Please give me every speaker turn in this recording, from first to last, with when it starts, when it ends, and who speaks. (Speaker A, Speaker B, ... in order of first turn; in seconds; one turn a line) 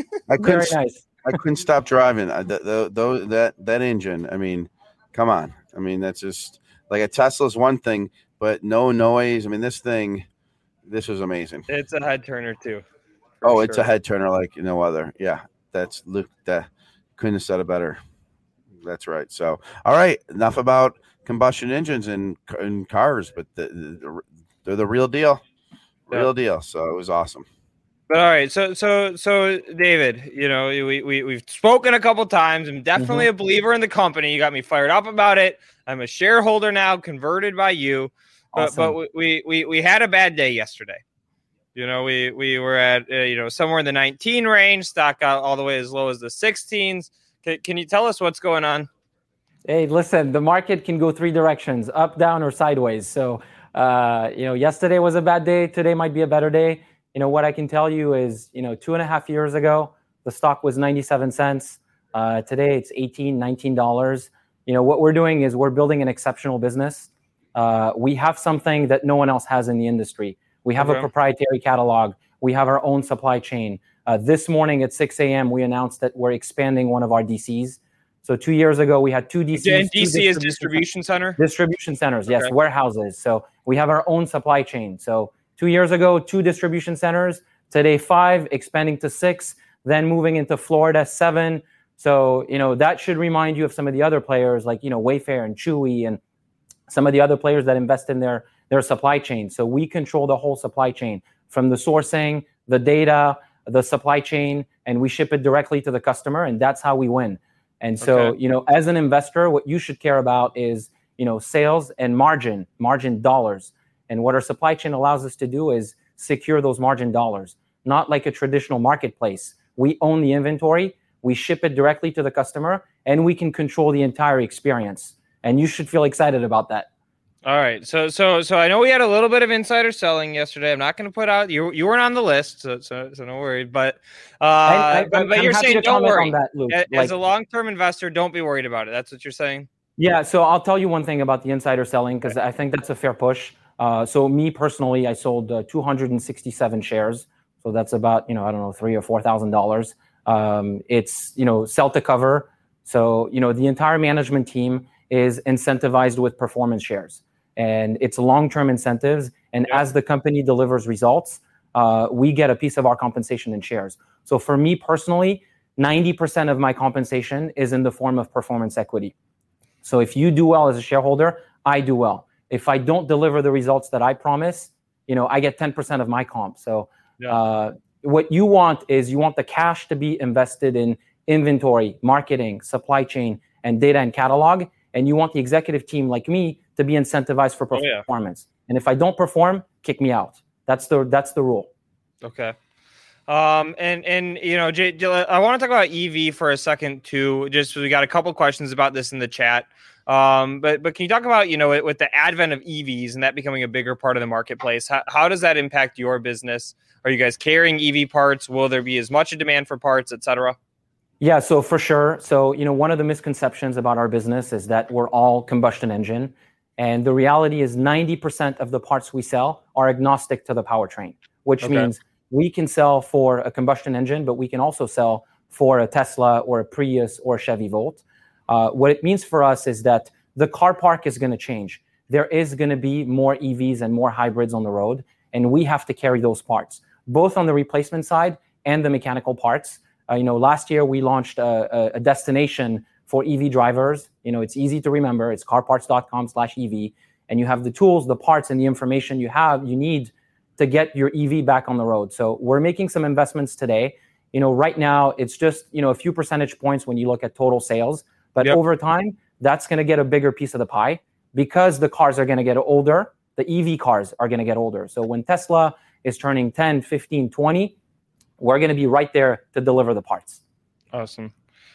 Speaker A: 0.3-10.2
Speaker B: 0.4-1.1
Speaker A: 10.8-11.7
Speaker C: 11.7-12.8
Speaker A: 13.4-18.0
Speaker C: 13.4-13.8
Speaker A: 18.8-25.4
Speaker A: 26.1-27.4
Speaker C: 28.1-41.0
Speaker B: 33.0-33.3
Speaker B: 38.5-39.0
Speaker C: 41.7-48.9
Speaker B: 49.6-80.8
Speaker C: 70.8-71.1
Speaker C: 79.5-81.4
Speaker B: 81.4-96.2
Speaker B: 96.9-126.9
Speaker C: 108.0-108.3
Speaker C: 127.4-139.7
Speaker B: 134.7-137.1
Speaker B: 140.0-169.1
Speaker B: 169.8-191.7
Speaker C: 187.7-188.1
Speaker C: 192.2-192.5
Speaker C: 193.3-210.6
Speaker B: 211.2-267.7
Speaker C: 221.6-221.9
Speaker B: 268.4-270.4
Speaker C: 270.9-271.3